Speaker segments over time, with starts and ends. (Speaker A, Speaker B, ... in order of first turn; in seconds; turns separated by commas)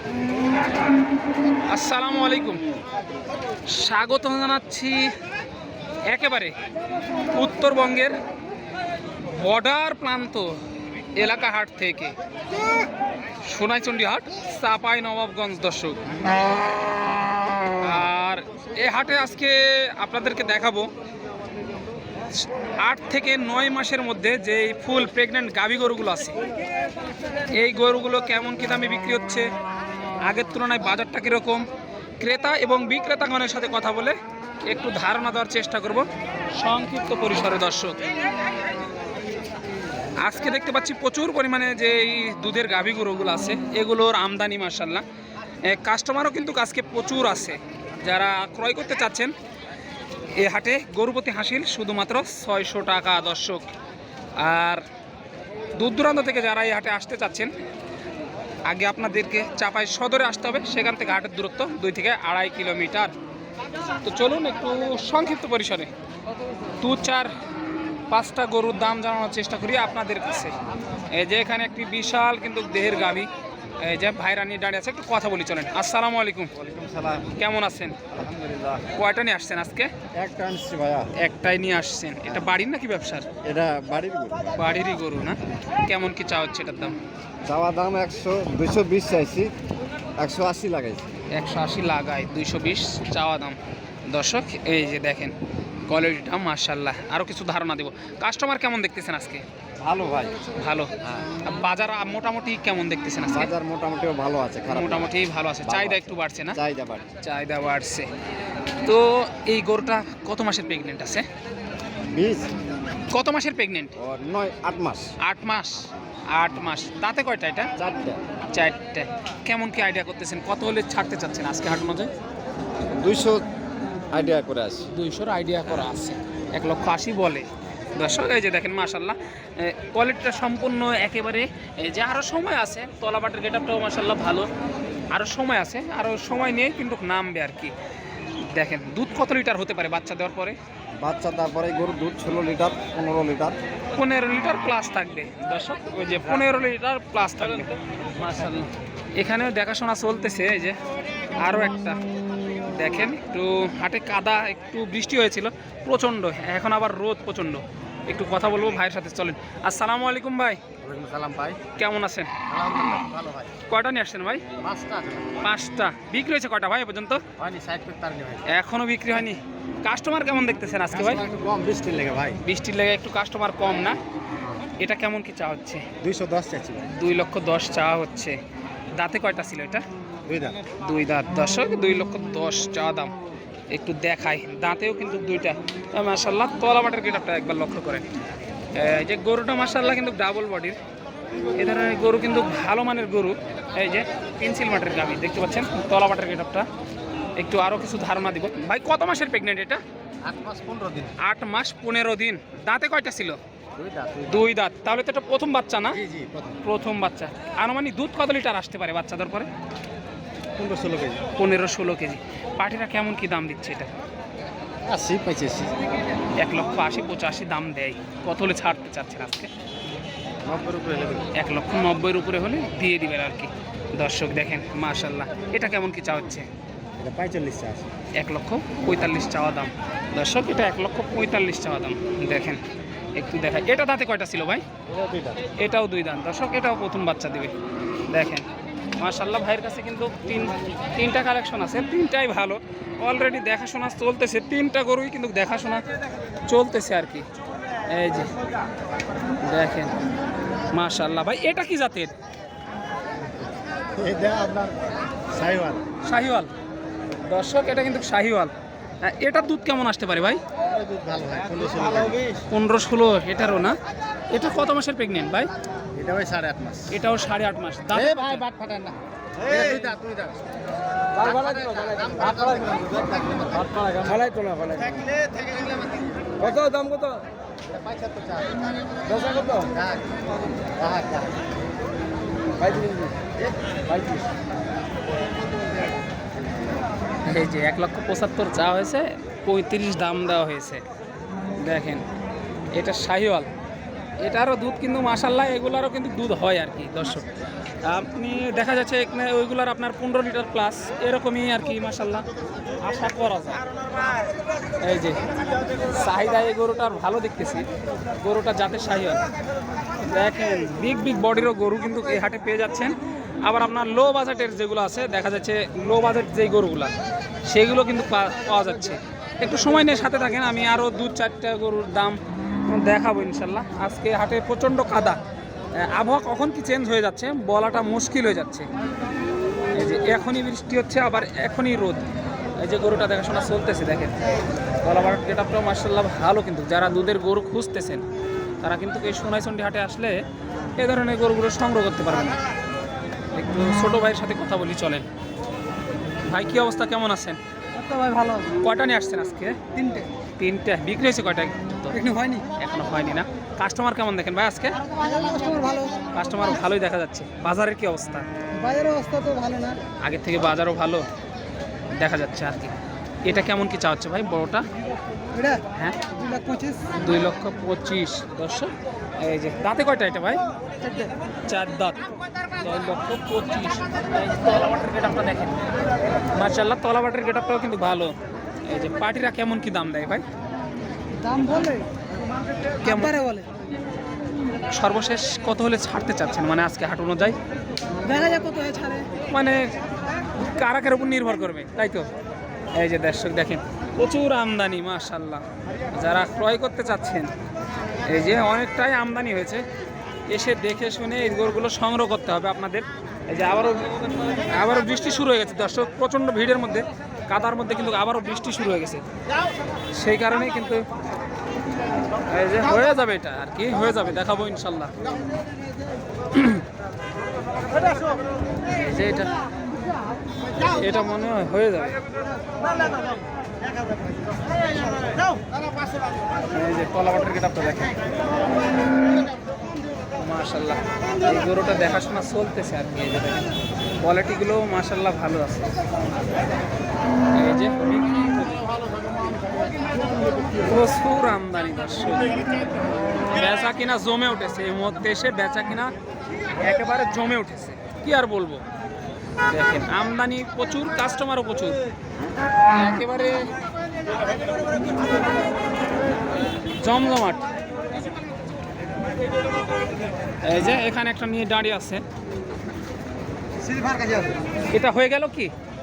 Speaker A: 1.6-2.6, Speaker A: 3.7-5.1, Speaker A: 6.1-6.5, Speaker A: 7.3-8.2, Speaker A: 9.2-10.6, Speaker A: 11.1-12.2, Speaker A: 13.4-16.1, Speaker A: 17.8-20.9, Speaker A: 22.8-26.4, Speaker A: 27.5-29.5, Speaker A: 30.2-31.7, Speaker A: 32.2-38.0, Speaker A: 40.2-45.0, Speaker A: 45.6-49.3, Speaker A: 50.3-53.7, Speaker A: 54.4-54.8, Speaker A: 55.7-57.5, Speaker A: 58.6-63.1, Speaker A: 64.0-65.9, Speaker A: 66.8-67.3, Speaker A: 68.1-70.5, Speaker A: 71.1-73.3, Speaker A: 73.8-76.5, Speaker B: 76.5-77.3, Speaker A: 77.3-78.0, Speaker B: 78.1-78.8, Speaker A: 78.9-79.9, Speaker B: 80.1-81.1, Speaker A: 81.1-83.3, Speaker B: 83.4-84.4, Speaker A: 84.6-87.0, Speaker B: 87.4-89.5, Speaker B: 90.2-91.1, Speaker A: 91.3-99.4, Speaker B: 99.8-100.5, Speaker A: 100.5-103.5, Speaker B: 103.3-105.1, Speaker A: 104.7-106.6, Speaker B: 105.6-107.1, Speaker A: 107.2-108.1, Speaker A: 108.8-111.3, Speaker B: 112.1-112.5, Speaker A: 113.1-113.9, Speaker B: 114.0-115.1, Speaker A: 115.2-117.7, Speaker B: 117.8-118.2, Speaker A: 118.5-122.1, Speaker B: 123.0-123.4, Speaker B: 124.1-124.9, Speaker A: 124.9-134.5, Speaker A: 135.1-137.7, Speaker A: 138.4-140.6, Speaker B: 141.0-143.6, Speaker A: 143.9-150.8, Speaker A: 151.4-152.0, Speaker A: 152.6-160.6, Speaker B: 160.8-161.6, Speaker A: 161.8-162.4, Speaker B: 162.5-163.5, Speaker A: 163.7-164.4, Speaker B: 164.6-165.4, Speaker A: 165.4-167.2, Speaker B: 167.4-168.5, Speaker A: 168.4-171.2, Speaker B: 170.9-172.4, Speaker A: 172.4-174.0, Speaker A: 174.8-175.9, Speaker B: 176.0-176.9, Speaker A: 176.9-178.4, Speaker A: 178.9-179.8, Speaker B: 180.2-180.6, Speaker A: 180.8-183.1, Speaker A: 183.7-188.1, Speaker A: 188.7-190.8, Speaker A: 191.5-196.7, Speaker A: 197.3-199.8, Speaker B: 200.2-201.2, Speaker A: 201.2-203.4, Speaker B: 203.8-204.5, Speaker A: 204.3-206.0, Speaker B: 205.9-206.6, Speaker A: 206.6-209.5, Speaker B: 210.6-211.2, Speaker A: 211.3-213.9, Speaker B: 214.8-215.7, Speaker A: 216.4-219.5, Speaker B: 220.4-221.3, Speaker A: 221.3-226.5, Speaker B: 227.0-227.9, Speaker A: 228.1-232.6, Speaker A: 233.1-234.6, Speaker B: 234.9-235.4, Speaker A: 235.6-237.5, Speaker A: 238.1-238.4, Speaker A: 239.0-245.8, Speaker A: 246.4-247.2, Speaker A: 247.9-248.3, Speaker A: 249.4-249.9, Speaker A: 250.7-252.1, Speaker B: 253.9-255.8, Speaker A: 256.0-256.5, Speaker A: 257.2-260.4, Speaker B: 260.7-262.4, Speaker A: 262.5-263.8, Speaker A: 264.3-265.5, Speaker B: 265.9-266.9, Speaker A: 266.9-268.4, Speaker B: 267.9-270.5, Speaker B: 271.1-281.4, Speaker B: 282.6-284.2, Speaker A: 287.2-290.8, Speaker A: 291.6-292.0, Speaker A: 292.7-293.5, Speaker A: 294.2-297.3, Speaker A: 297.8-302.2, Speaker A: 302.8-303.6, Speaker A: 304.8-305.2, Speaker A: 305.9-307.6, Speaker A: 308.2-309.2, Speaker A: 310.0-316.9, Speaker A: 317.4-325.2, Speaker A: 325.8-328.7, Speaker A: 329.7-332.1, Speaker A: 332.6-334.2, Speaker A: 334.8-338.0, Speaker A: 338.6-340.2, Speaker A: 340.8-342.4, Speaker A: 343.3-345.1, Speaker A: 346.2-347.4, Speaker C: 347.7-348.5, Speaker A: 348.5-349.6, Speaker C: 349.7-350.1, Speaker A: 350.4-352.0, Speaker C: 351.9-352.4, Speaker A: 352.5-354.8, Speaker C: 354.9-356.1, Speaker A: 356.1-358.3, Speaker C: 358.5-359.8, Speaker A: 360.0-361.1, Speaker A: 361.9-364.6, Speaker C: 365.3-366.9, Speaker A: 365.7-366.1, Speaker A: 366.9-370.4, Speaker C: 370.8-371.1, Speaker A: 371.5-375.5, Speaker A: 376.3-378.1, Speaker A: 378.6-380.2, Speaker C: 381.2-381.9, Speaker A: 382.8-383.2, Speaker C: 382.9-383.5, Speaker A: 384.7-387.4, Speaker C: 388.0-389.1, Speaker A: 389.3-389.7, Speaker A: 390.4-392.1, Speaker A: 392.7-397.3, Speaker A: 398.0-399.6, Speaker A: 400.3-409.0, Speaker A: 409.9-410.9, Speaker A: 412.3-414.9, Speaker A: 416.3-416.6, Speaker A: 418.7-419.4, Speaker A: 420.6-422.0, Speaker A: 426.5-428.0, Speaker A: 430.2-433.5, Speaker A: 434.0-435.8, Speaker A: 437.3-438.3, Speaker A: 440.6-442.4, Speaker A: 443.3-445.9, Speaker A: 446.5-448.6, Speaker A: 449.4-451.8, Speaker A: 452.7-453.5, Speaker A: 456.8-457.4, Speaker A: 460.4-462.0, Speaker B: 463.7-464.3, Speaker A: 464.7-465.5